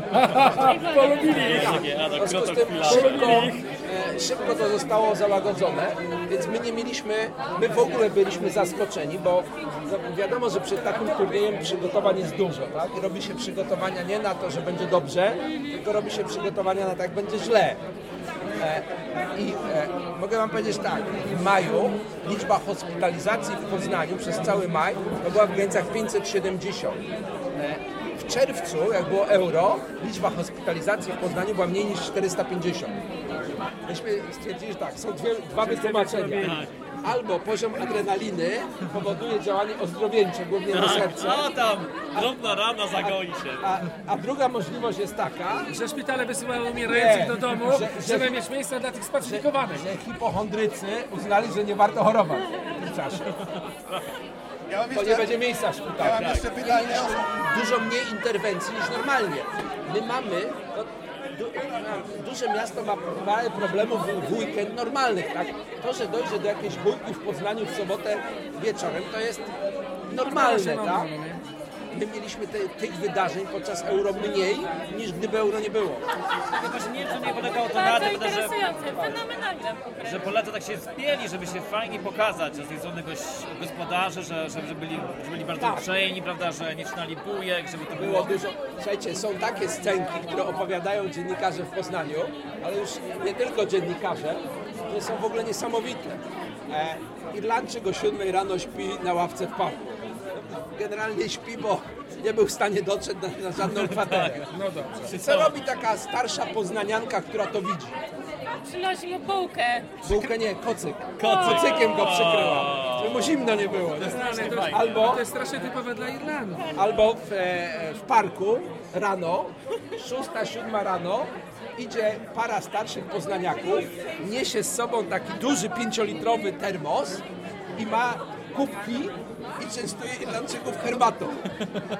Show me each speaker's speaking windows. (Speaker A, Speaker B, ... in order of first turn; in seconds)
Speaker A: 0.3-1.4, 35.6-36.6, 45.7-49.8, 70.2-71.4, 104.4-105.2, 113.9-116.7
Speaker B: 0.6-1.6, 77.7-79.9, 108.6-110.1, 111.2-111.6
Speaker C: 1.2-3.3, 36.4-36.7, 40.7-43.7, 76.5-78.5, 80.0-88.3, 105.1-105.5, 111.2-113.4, 114.4-114.9
Speaker D: 1.3-17.8, 18.6-27.0, 27.6-33.0, 33.9-41.5, 42.9-45.7, 46.9-48.4, 49.2-53.3, 54.9-69.5, 70.1-71.1, 71.9-76.0, 85.6-85.9, 88.0-99.9, 100.5-104.5, 105.0-108.0, 110.0-115.2, 116.7-127.2, 127.8-131.4
Speaker E: 54.7-55.4, 56.0-57.4